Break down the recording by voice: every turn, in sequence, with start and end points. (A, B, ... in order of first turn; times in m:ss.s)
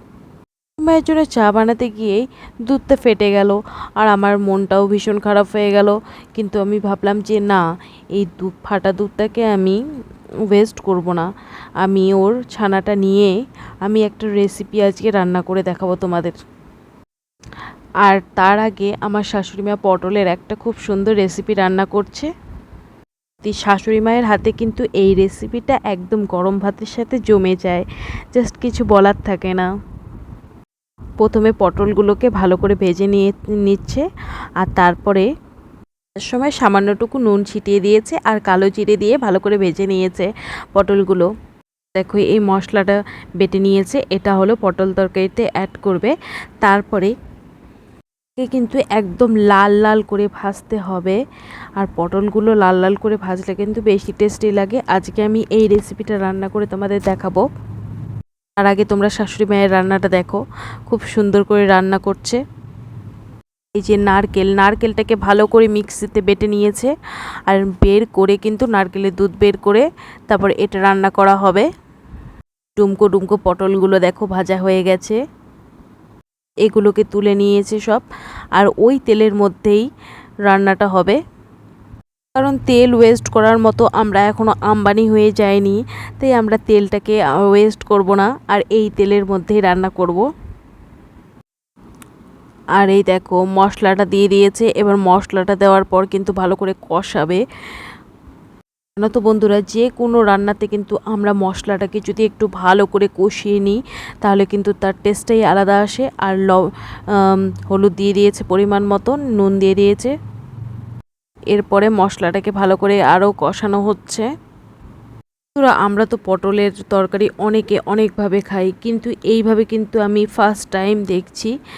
0:00.8-0:07.6 A
0:08.1-0:09.8 A
0:10.5-0:11.2 A
0:11.8-0:13.3 A
0:13.8-0:16.3 A
0:18.0-0:22.3 A
0:23.4-0:29.6 A
0:31.2-0:34.0 A
0:34.6-0:35.3 A
0:36.2-0:41.3 A
0:42.0-0:47.1 A
0:48.4-0:51.2 A
0:51.8-0:57.4 A
0:58.6-1:02.4 A
1:03.8-1:06.9 A
1:07.5-1:11.7 A
1:12.8-1:15.2 A
1:16.6-1:18.0 A
1:18.6-1:19.9 A
1:20.5-1:21.2 A
1:22.4-1:30.2 A
1:32.8-1:37.4 A
1:39.0-1:50.1 A
1:51.5-1:54.3 A
1:55.6-2:01.5 A